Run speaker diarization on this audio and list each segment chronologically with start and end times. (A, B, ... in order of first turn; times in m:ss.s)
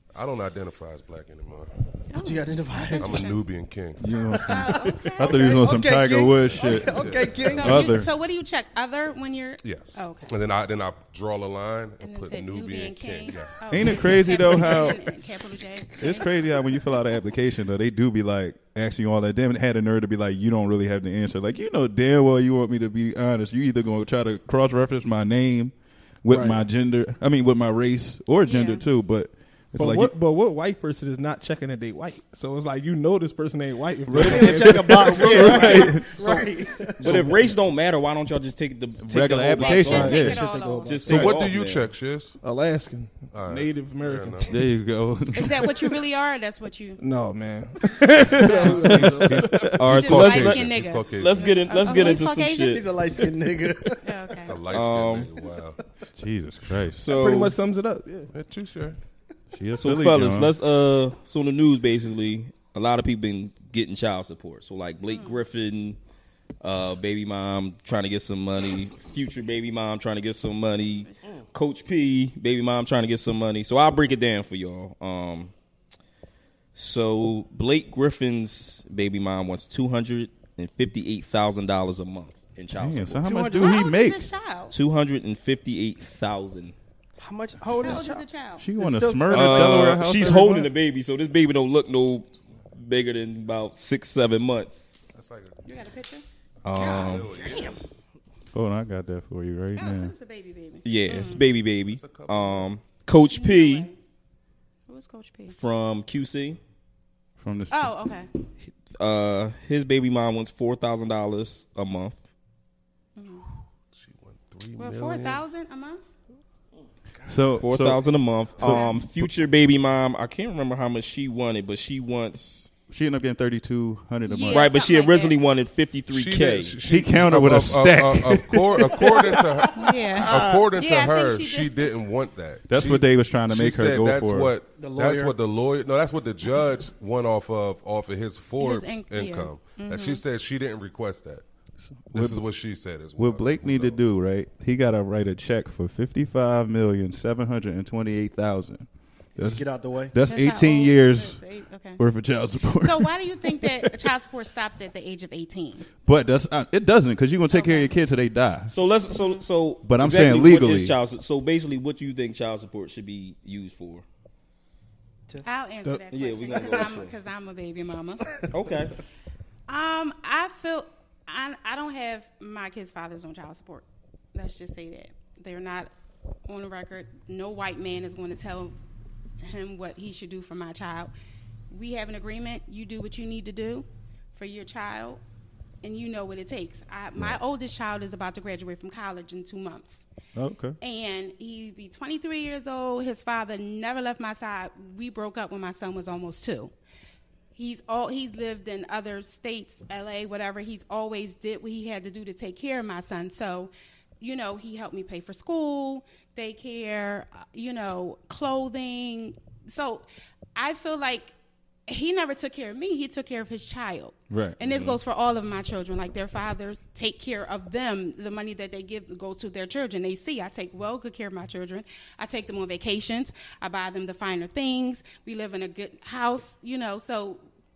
0:00.1-0:01.9 A
0:02.1-0:03.4 B
0:02.1-0:03.3 C
0:03.0-0:04.0 A
0:04.0-0:08.1 D
0:04.4-0:08.0 C
0:04.4-0:05.4 B
0:06.8-0:07.3 A
0:07.5-0:10.3 B
0:09.6-0:14.2 A
0:12.0-0:16.6 B
0:13.7-0:15.2 D
0:15.9-0:30.1 D
0:26.3-0:26.6 C
0:28.5-0:28.8 B
0:29.8-0:35.6 E
0:34.1-0:36.1 D
0:34.1-0:37.3 C
0:35.0-0:36.5 A
0:37.0-0:41.9 F
0:39.0-0:40.4 D
0:39.5-0:41.0 B
0:39.8-0:41.4 C
0:41.1-0:42.4 A
0:42.4-0:44.6 E
0:43.3-0:44.5 A
0:44.5-0:45.9 D
0:45.3-0:47.0 B
0:47.0-0:49.8 E
0:48.4-0:51.4 A
0:49.1-0:49.9 D
0:49.8-0:52.9 F
0:49.9-0:52.8 B
0:51.9-0:54.6 C
0:54.0-0:54.6 B
0:54.5-0:55.8 A
0:54.7-0:55.3 F
0:56.1-0:57.1 D
0:57.0-0:57.5 F
0:57.1-0:58.3 E
0:58.3-0:59.0 A
0:59.5-1:00.5 D
0:59.8-1:06.0 F
1:05.1-1:05.4 B
1:06.6-1:15.5 F
1:16.8-1:23.2 F
1:22.7-1:24.2 D
1:23.2-1:23.8 C
1:23.5-1:24.8 B
1:24.7-1:26.7 F
1:27.2-1:28.3 C
1:27.8-1:28.7 B
1:28.6-1:30.7 D
1:28.8-1:30.0 C
1:29.3-1:35.0 F
1:35.1-1:35.6 A
1:35.6-1:36.2 B
1:36.6-1:37.5 F
1:36.7-1:37.8 C
1:36.8-1:37.7 A
1:37.4-1:37.7 B
1:38.5-1:40.1 D
1:39.8-1:41.4 B
1:40.8-1:43.9 F
1:41.9-1:42.7 A
1:43.3-1:44.0 B
1:44.9-1:45.6 B
1:45.5-1:46.6 F
1:47.4-1:47.9 D
1:47.7-1:48.3 B
1:48.6-1:52.2 F
1:53.2-1:53.5 B
1:53.9-1:55.4 A
1:54.8-1:56.0 B
1:56.8-1:57.4 C
1:57.3-1:59.3 D
1:57.6-2:02.7 F
1:58.6-1:59.0 B
2:02.9-2:04.7 D
2:04.3-2:05.4 B
2:04.5-2:06.8 F
2:06.1-2:21.4 A
2:06.8-2:09.2 D
2:09.0-2:09.4 C
2:09.8-2:11.9 B
2:10.2-2:10.6 C
2:12.7-2:14.5 D
2:14.8-2:15.3 C
2:18.6-2:20.2 B
2:21.9-2:22.4 D
2:22.1-2:24.0 A
2:23.2-2:31.4 D
2:29.4-2:30.2 C
2:30.3-2:32.0 B
2:32.0-2:33.2 D
2:32.8-2:35.9 B
2:36.0-2:38.7 D
2:37.5-2:37.9 B
2:38.7-2:44.0 F
2:39.2-2:39.4 B
2:39.8-2:41.0 D
2:45.4-2:48.2 B
2:46.1-2:47.1 F
2:48.5-2:49.0 F
2:49.7-2:53.8 B
2:54.4-2:55.9 B
2:56.5-2:58.7 B
2:59.4-3:01.1 B
3:01.7-3:05.2 B
3:05.8-3:10.0 B
3:10.4-3:10.8 D
3:10.8-3:16.7 B
3:17.6-3:31.3 B
3:31.9-3:47.4 B
3:34.3-3:34.6 D